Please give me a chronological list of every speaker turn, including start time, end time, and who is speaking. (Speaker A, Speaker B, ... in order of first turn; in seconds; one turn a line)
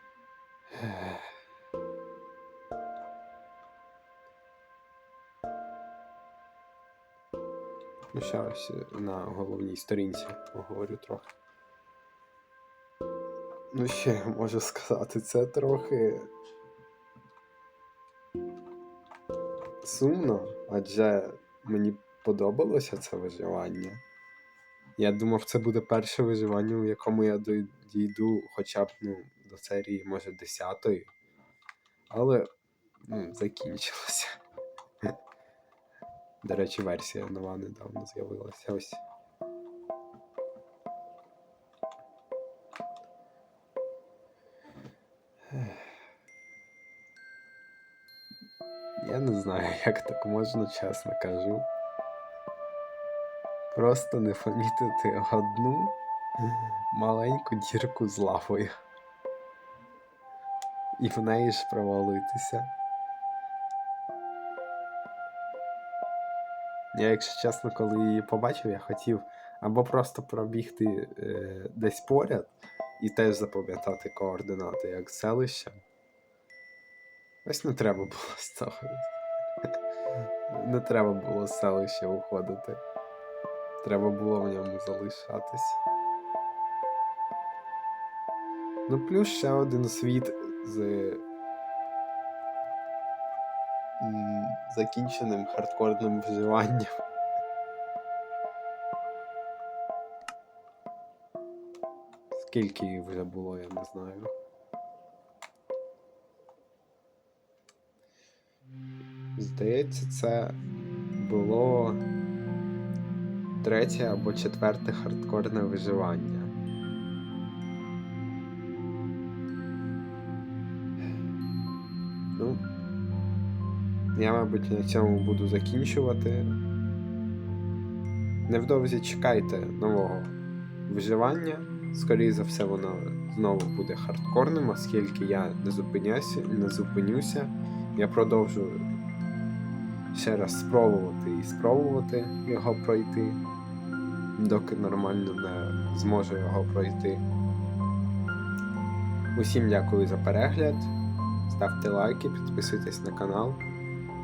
Speaker A: 0.7-1.3
Speaker A: 8.1-11.3
Speaker A: 13.7-16.3
Speaker A: 19.8-24.0
Speaker A: 25.0-31.1
Speaker A: 32.1-32.5
Speaker A: 33.0-34.4
Speaker A: 36.4-39.0
Speaker A: 45.5-46.0
Speaker A: 49.0-51.7
Speaker A: 53.7-58.7
Speaker A: 61.0-62.7
Speaker A: 66.9-75.8
Speaker A: 77.4-79.1
Speaker A: 80.5-82.8
Speaker A: 83.8-85.8
Speaker A: 88.9-91.2
Speaker A: 94.0-96.9
Speaker A: 102.3-104.3
Speaker A: 109.4-110.6
Speaker A: 111.1-112.0
Speaker A: 113.6-116.5
Speaker A: 122.3-122.6
Speaker A: 124.1-126.6
Speaker A: 128.5-138.8
Speaker A: 140.1-143.4
Speaker A: 144.3-147.2
Speaker A: 149.3-150.9
Speaker A: 151.5-153.6